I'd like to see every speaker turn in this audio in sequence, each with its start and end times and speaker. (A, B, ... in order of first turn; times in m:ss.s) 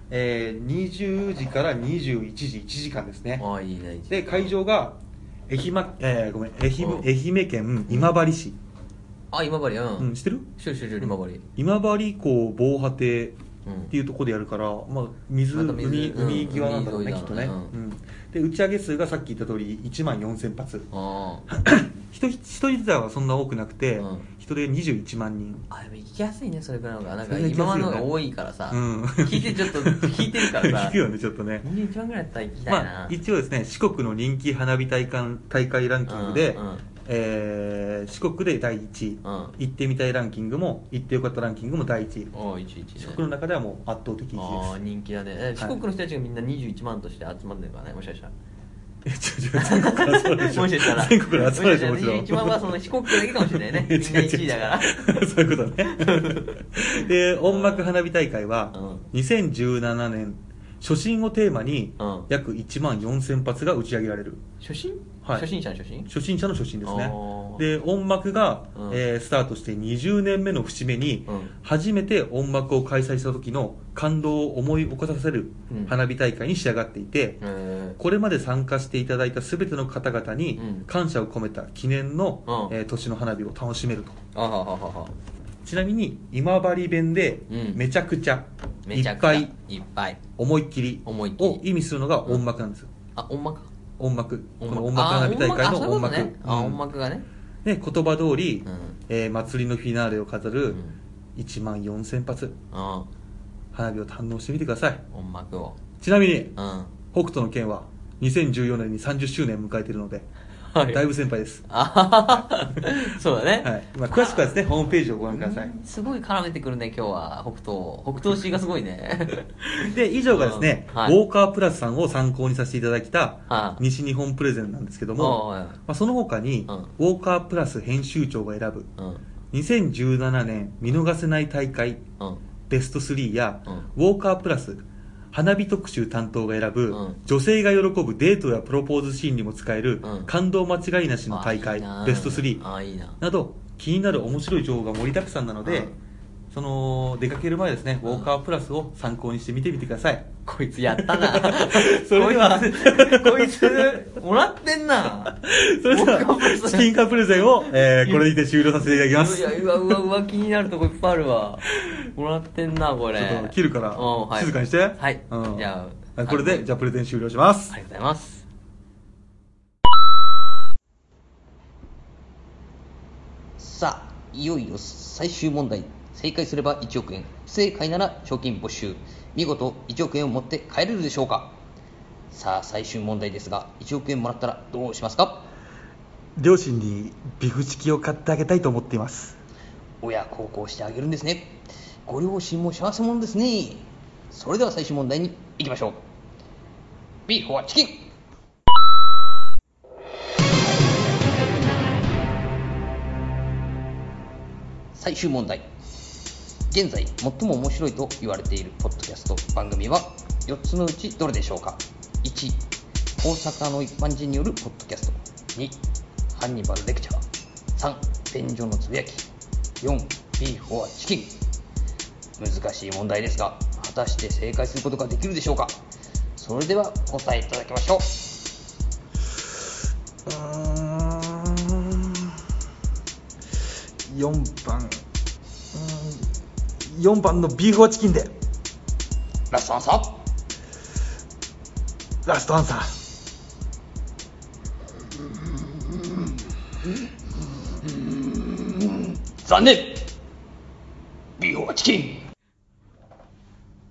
0:00.1-0:03.4 A
0:03.4-0:04.5 B
0:04.1-0:05.0 A
0:05.5-0:08.6 A
0:06.8-0:07.1 B
0:07.9-0:08.2 B
0:09.3-0:11.4 B
0:10.0-0:10.5 A
0:11.0-0:13.4 A
0:13.6-0:13.9 B
0:13.9-0:20.9 A
0:15.5-0:17.7 B
0:20.9-0:21.5 B
0:21.5-0:25.7 A
0:24.0-0:24.3 B
0:25.7-0:31.0 B
0:27.2-0:28.1 A
0:28.7-0:31.6 A
0:31.6-0:33.2 B
0:32.7-0:42.3 A
0:36.1-0:36.9 B
0:39.2-0:39.6 B
0:42.3-0:43.2 B
0:43.0-0:44.7 A
0:44.4-0:48.3 B
0:49.0-1:04.4 A
0:49.6-0:55.2 B
0:55.9-0:56.6 B
0:57.4-0:57.9 B
0:58.7-0:59.1 B
1:02.0-1:02.3 B
1:04.6-1:06.1 B
1:05.2-1:05.5 A
1:06.1-1:17.4 A
1:06.8-1:07.7 B
1:08.8-1:09.0 B
1:11.3-1:11.5 B
1:15.7-1:16.0 B
1:17.4-1:18.0 B
1:18.0-1:24.2 A
1:20.6-1:20.9 B
1:22.5-1:22.8 B
1:24.3-1:25.1 B
1:25.6-1:29.5 A
1:27.5-1:27.8 B
1:28.8-1:30.2 B
1:30.4-1:32.9 A
1:31.0-1:31.6 B
1:33.2-1:33.7 B
1:34.0-1:36.8 A
1:34.6-1:37.2 B
1:37.6-1:40.8 A
1:38.6-1:39.0 B
1:40.7-1:41.0 B
1:41.4-1:42.6 A
1:42.7-1:43.1 B
1:43.7-1:45.0 A
1:45.1-1:45.8 B
1:46.0-1:46.6 A
1:46.6-1:46.9 B
1:47.1-1:50.3 A
1:50.7-1:51.0 B
1:50.9-1:51.6 A
1:51.7-1:54.6 B
1:52.3-1:55.7 A
1:55.3-1:59.5 B
1:59.8-2:08.9 A
2:00.3-2:01.2 B
2:03.5-2:03.8 B
2:05.2-2:05.8 B
2:09.0-2:09.2 B
2:09.5-2:12.0 A
2:12.7-2:22.6 A
2:16.9-2:17.2 B
2:20.0-2:20.3 B
2:21.3-2:23.2 B
2:23.2-2:25.9 A
2:25.6-2:26.0 B
2:26.5-2:30.3 A
2:28.0-2:28.3 B
2:30.5-2:36.9 B
2:30.8-2:34.0 A
2:35.3-2:40.0 A
2:37.6-2:38.3 B
2:38.8-2:46.6 B
2:43.2-2:47.8 A
2:47.7-2:48.4 B
2:53.6-3:01.6 C
3:02.3-3:05.5 C
3:06.4-3:09.4 A
3:10.0-3:16.0 C
3:17.3-3:18.1 C
3:24.9-3:25.7 C
3:26.7-3:32.6 C
3:33.2-3:35.8 C
3:36.3-3:37.2 C
3:37.8-3:39.3 C
3:39.8-3:41.4 C
3:42.4-3:45.8 C
3:46.4-3:48.1 C
3:50.3-3:52.3 A
3:54.1-3:55.0 A
3:55.7-3:56.3 A
3:56.8-3:58.3 A
3:59.5-4:00.2 C
4:02.2-4:02.9 A
4:07.8-4:10.1 C
4:11.4-4:12.3 C